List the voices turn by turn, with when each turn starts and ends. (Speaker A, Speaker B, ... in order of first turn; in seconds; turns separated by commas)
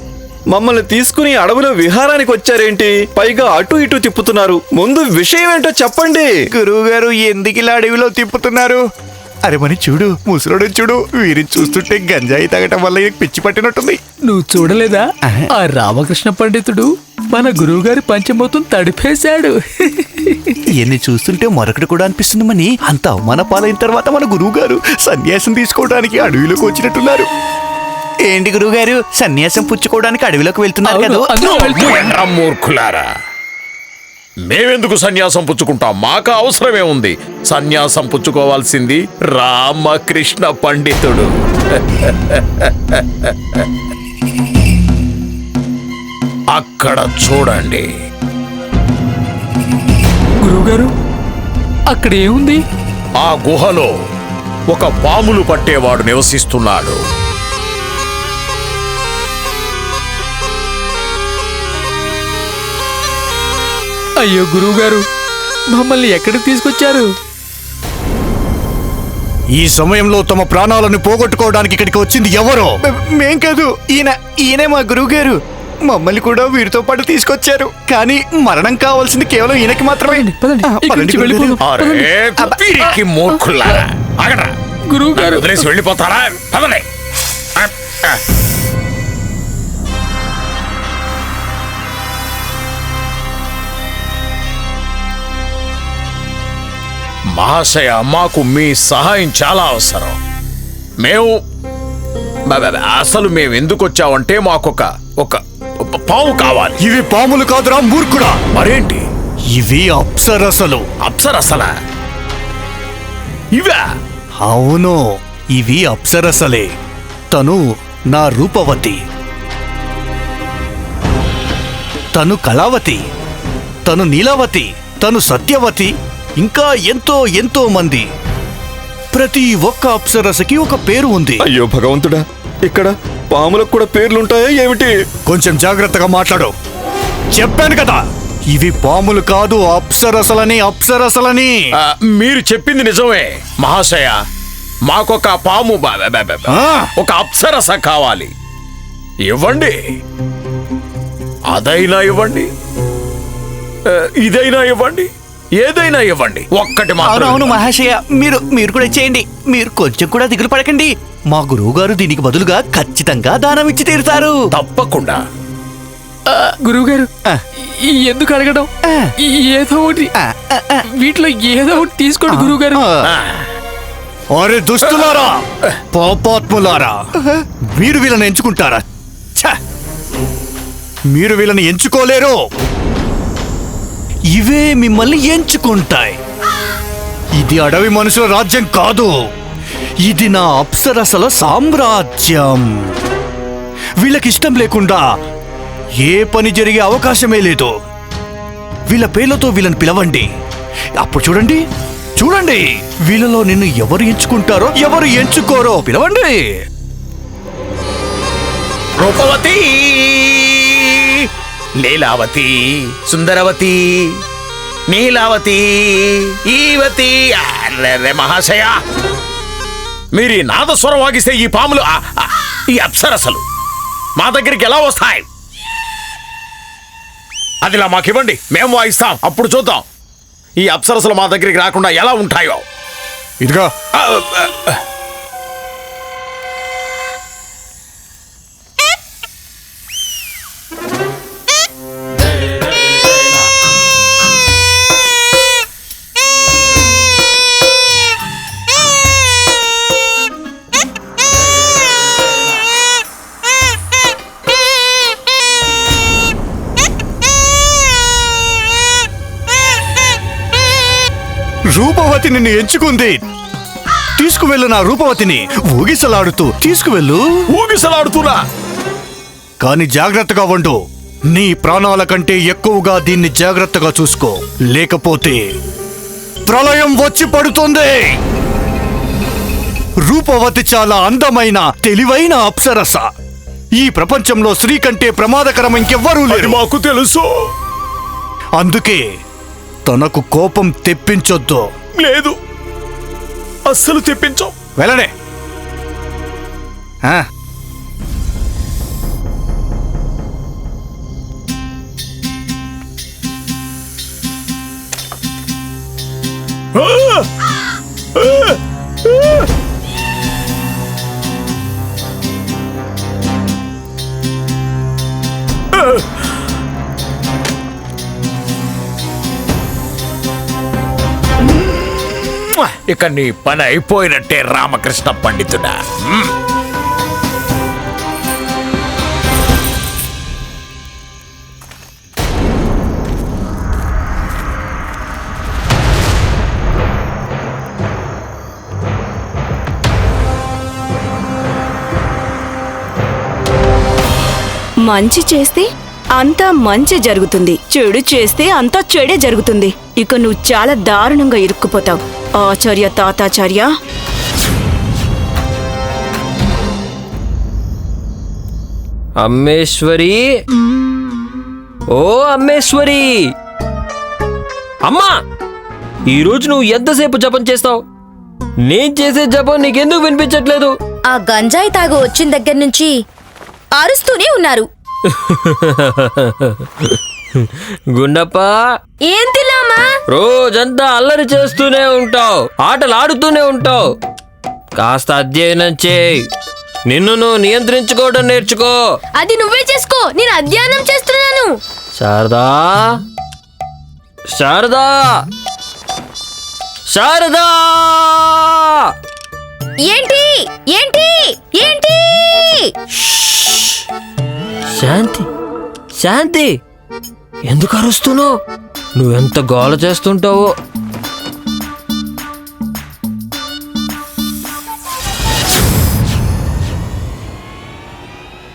Speaker A: 0.5-6.3, Speaker B: 6.5-8.8, Speaker B: 9.5-14.0, Speaker C: 14.3-15.0, Speaker C: 15.6-20.5, Speaker B: 20.8-27.3, Speaker B: 28.3-31.3, Speaker C: 30.8-32.2, Speaker D: 31.4-33.0, Speaker D: 34.5-43.6, Speaker D: 46.5-47.9, Speaker C: 50.4-50.9, Speaker C: 51.9-52.6, Speaker D: 53.2-53.9, Speaker D: 54.7-57.0, Speaker C: 64.2-65.0, Speaker C: 65.7-67.1, Speaker E: 69.5-72.8, Speaker B: 73.0-75.4, Speaker B: 75.9-78.0, Speaker E: 78.0-80.2, Speaker C: 80.1-82.1, Speaker B: 80.8-81.1, Speaker E: 81.2-81.6, Speaker D: 81.6-84.5, Speaker C: 82.8-83.8, Speaker C: 84.9-85.6, Speaker D: 85.2-86.8, Speaker D: 87.5-88.2, Speaker D: 97.3-100.2, Speaker D: 101.0-101.3, Speaker D: 102.5-105.4, Speaker D: 105.9-106.8, Speaker E: 106.8-108.4, Speaker D: 108.5-109.0, Speaker E: 109.5-110.8, Speaker D: 111.0-111.7, Speaker D: 113.5-113.8, Speaker E: 114.4-115.0, Speaker E: 115.6-116.7, Speaker E: 117.3-117.6, Speaker E: 118.1-119.0, Speaker E: 122.2-123.0, Speaker E: 123.8-128.0, Speaker E: 129.1-131.4, Speaker A: 131.4-134.9, Speaker E: 135.3-136.5, Speaker E: 137.3-138.0, Speaker E: 138.5-141.5, Speaker D: 141.8-144.2, Speaker D: 144.8-148.3, Speaker E: 146.5-146.9, Speaker D: 149.3-149.8, Speaker D: 151.5-152.5, Speaker D: 153.9-155.1, Speaker D: 155.6-157.6, Speaker B: 157.0-164.3, Speaker D: 164.5-165.2, Speaker C: 166.3-167.1, Speaker C: 167.8-168.7, Speaker C: 169.2-170.1, Speaker B: 170.2-170.8, Speaker C: 171.0-172.8, Speaker B: 172.3-173.0, Speaker D: 173.0-173.4, Speaker E: 174.3-175.4, Speaker E: 175.9-177.0, Speaker E: 177.8-178.8, Speaker E: 181.1-182.4, Speaker E: 184.3-186.2, Speaker E: 187.4-189.1, Speaker E: 190.1-192.9, Speaker E: 194.0-195.0, Speaker E: 196.0-197.7, Speaker E: 198.9-200.2, Speaker E: 201.0-201.6, Speaker E: 202.2-206.4, Speaker D: 209.0-211.3, Speaker D: 211.8-213.8, Speaker D: 214.9-218.8, Speaker D: 220.1-223.4, Speaker D: 224.2-225.2, Speaker D: 227.6-229.8, Speaker D: 230.6-232.6, Speaker E: 233.4-233.7, Speaker D: 233.9-234.8, Speaker E: 261.7-263.2, Speaker E: 264.2-267.2, Speaker D: 267.5-268.4, Speaker E: 269.6-270.7, Speaker E: 271.3-275.4, Speaker E: 276.5-278.1, Speaker E: 280.0-283.1, Speaker E: 283.8-286.6, Speaker D: 286.3-287.2, Speaker E: 288.6-289.0, Speaker E: 289.9-291.6, Speaker D: 292.0-292.3, Speaker D: 293.7-294.5, Speaker E: 294.8-295.1, Speaker D: 306.8-307.3, Speaker D: 308.1-309.4, Speaker D: 315.7-316.0, Speaker D: 322.6-326.3, Speaker F: 344.8-353.7, Speaker G: 359.2-360.4, Speaker G: 361.9-363.3, Speaker G: 364.8-365.2, Speaker G: 366.1-367.8, Speaker G: 368.6-370.8, Speaker H: 371.1-372.9, Speaker H: 373.7-374.7, Speaker G: 375.1-378.8, Speaker H: 379.1-379.9, Speaker G: 380.1-384.0, Speaker G: 384.8-386.3, Speaker G: 386.8-389.0, Speaker H: 389.2-391.5, Speaker G: 392.0-393.0, Speaker G: 394.3-395.2, Speaker G: 396.9-398.9, Speaker H: 399.8-402.7, Speaker G: 402.9-403.8, Speaker G: 404.7-405.3, Speaker G: 405.9-406.6, Speaker G: 407.4-408.4, Speaker G: 408.9-410.5